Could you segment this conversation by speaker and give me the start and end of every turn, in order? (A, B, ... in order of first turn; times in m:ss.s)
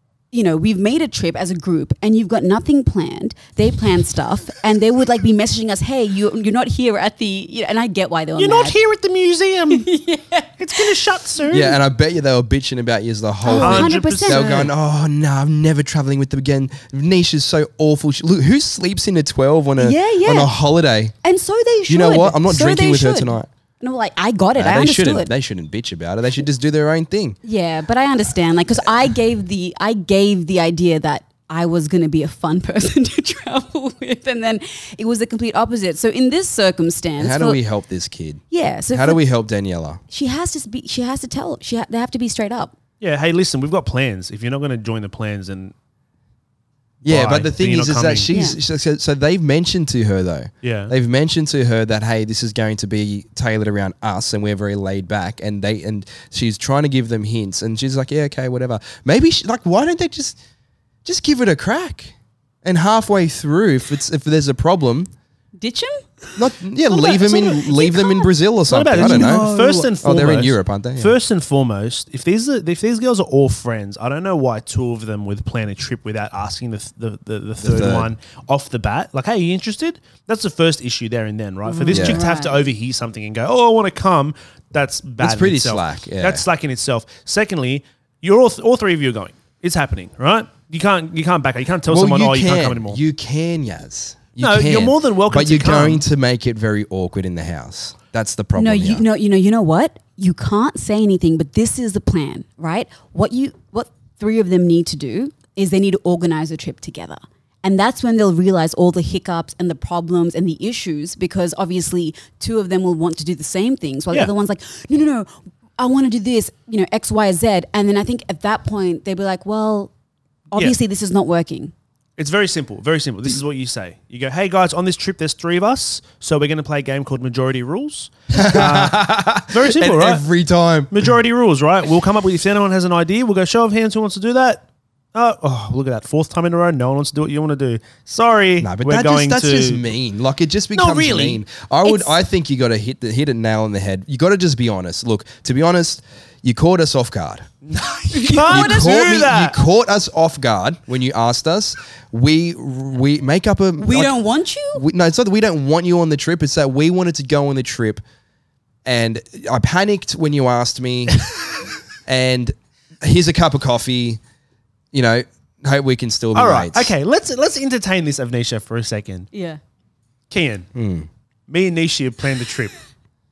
0:00.3-0:08.8 A
0:08.4-0:09.9 B
0:09.7-0:11.0 A
0:10.6-0:11.8 B
0:11.5-0:21.1 C
0:13.4-0:14.7 A
0:13.6-0:14.7 B
0:19.8-0:20.6 A
0:21.2-0:25.3 A
0:21.9-0:23.5 C
0:24.6-0:27.4 C
0:27.4-0:37.6 A
0:37.2-0:40.0 C
0:38.5-0:39.2 A
0:40.1-0:42.7 A
0:43.0-0:45.7 B
0:47.0-1:00.4 C
0:47.0-0:48.3 B
0:48.3-0:48.6 A
0:50.6-0:50.9 B
1:01.0-1:05.1 C
1:05.6-1:08.3 A
1:06.4-1:11.2 C
1:08.7-1:33.0 B
1:08.9-1:09.8 A
1:17.6-1:18.1 C
1:21.6-1:22.6 A
1:21.9-1:22.2 C
1:25.2-1:26.4 C
1:31.9-1:39.0 C
1:34.4-1:36.0 B
1:38.5-1:59.9 A
2:00.5-2:01.7 A
2:02.2-2:10.2 B
2:08.3-2:11.1 C
2:10.9-2:19.9 B
2:18.6-2:27.5 C
2:20.7-2:21.4 B
2:21.8-2:22.1 A
2:27.6-2:29.6 B
2:28.1-2:29.0 A
2:28.4-2:34.1 C
2:33.8-2:34.8 A
2:34.7-2:38.0 C
2:38.8-2:41.2 C
2:42.0-2:44.2 C
2:44.9-2:46.9 C
2:46.3-2:49.3 B
2:49.3-2:49.6 A
2:50.3-2:50.7 B
2:50.7-2:51.1 C
2:51.5-2:52.8 B